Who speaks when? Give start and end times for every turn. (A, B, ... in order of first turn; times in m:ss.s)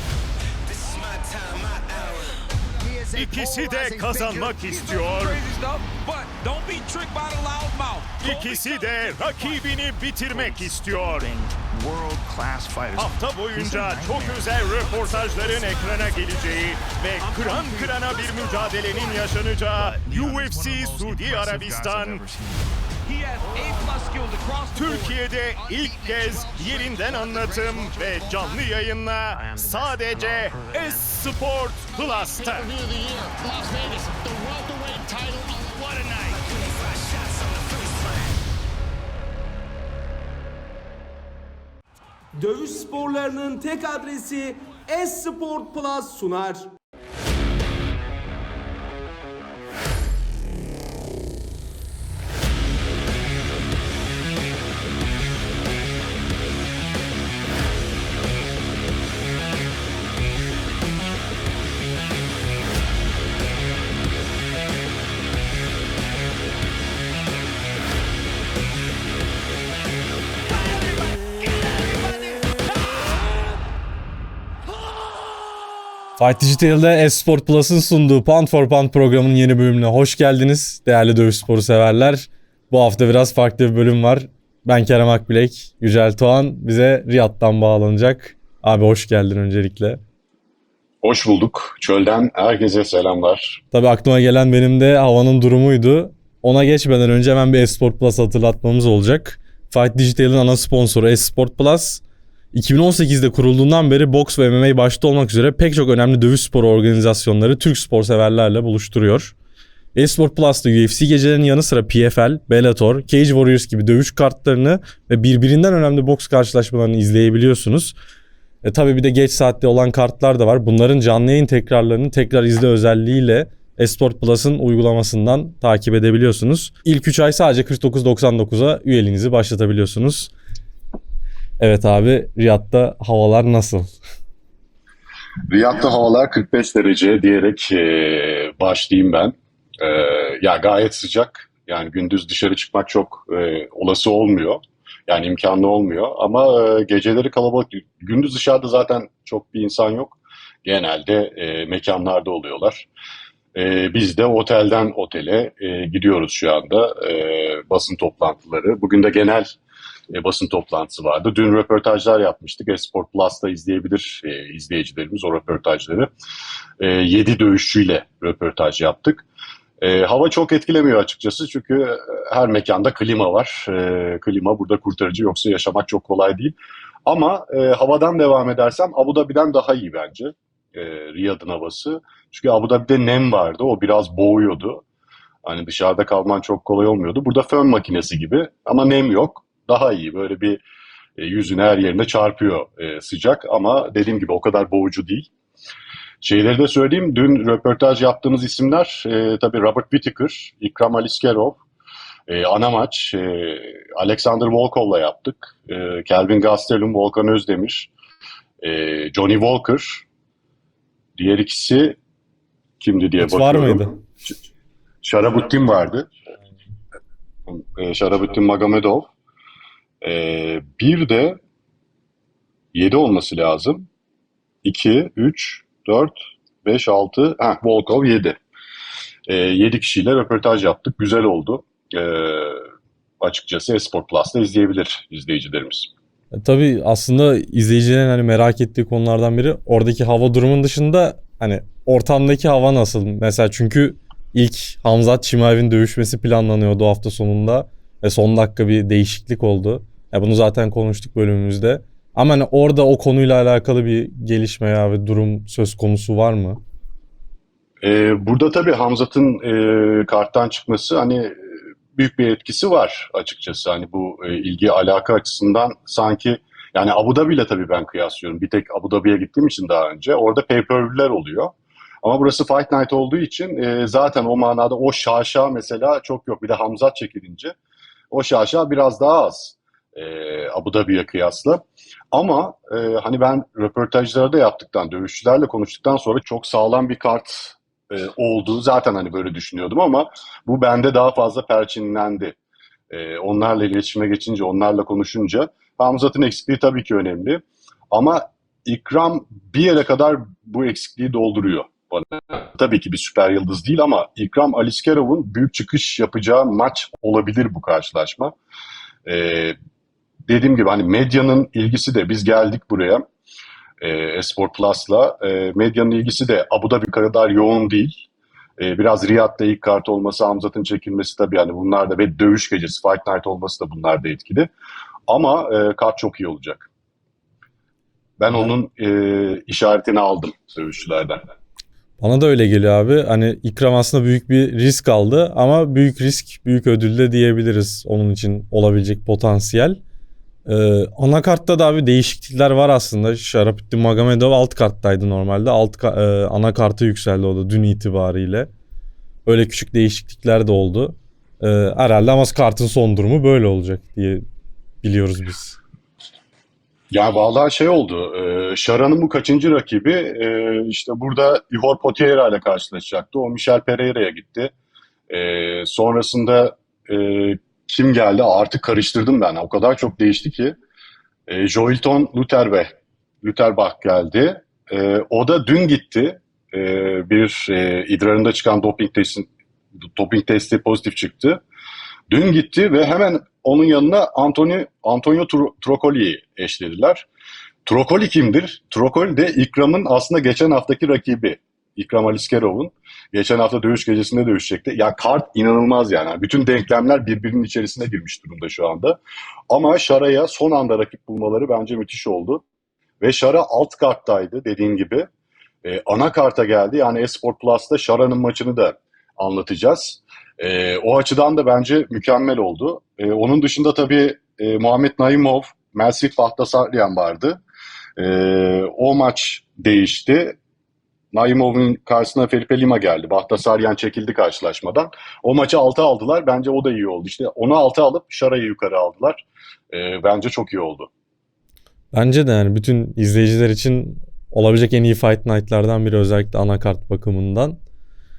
0:00.6-0:02.4 A
0:02.8-0:03.2 B
0:03.0-0:09.7 A
0:03.1-0:05.4 C
0:08.2-0:11.3 C
0:10.3-0:28.8 A
0:13.0-0:22.2 C
0:24.7-0:32.7 C
0:29.3-0:31.2 A
0:32.0-0:38.4 A
0:35.7-0:36.4 C
0:42.3-0:46.7 B
1:10.5-1:13.0 A
1:16.2-1:30.0 D
1:31.0-1:33.6 E
1:33.7-1:42.0 D
1:42.5-1:49.3 D
1:49.9-1:57.9 D
1:58.6-2:10.3 D
2:11.6-2:13.9 D
2:15.5-2:32.9 E
2:33.5-2:39.6 E
2:40.1-2:46.1 E
2:46.8-2:49.2 E
2:49.8-3:04.8 E
3:05.4-3:10.6 E
3:11.2-3:15.3 E
3:16.2-3:21.6 E
3:22.3-3:27.9 E
3:28.6-3:30.0 E
3:31.2-3:32.0 E
3:32.8-3:34.3 E
3:33.2-3:33.9 D
3:35.0-3:36.1 E
3:37.5-3:39.1 E
3:40.0-3:41.4 E
3:42.7-3:43.9 E
3:44.6-3:48.4 E
3:49.3-3:52.6 E
3:53.2-3:55.9 E
3:56.3-4:16.6 D
4:17.8-4:37.5 E
4:38.1-4:52.4 E
4:52.9-5:08.3 E
5:09.0-5:09.6 E
5:10.3-5:13.0 E
5:13.8-5:18.0 E
5:18.6-5:24.5 E
5:25.1-5:26.7 E
5:28.2-5:31.2 E
5:32.0-5:39.8 D
5:40.4-5:48.5 D
5:49.2-5:54.2 D
5:54.8-5:55.6 D
5:56.9-6:04.5 E
6:05.1-6:10.6 E
6:11.3-6:19.3 E
6:19.8-6:21.4 E
6:22.1-6:27.1 E
6:27.6-6:42.4 E
6:43.0-6:45.1 E
6:45.6-6:57.4 E
6:58.0-7:00.4 E
7:01.1-7:10.9 E
7:11.9-7:17.6 D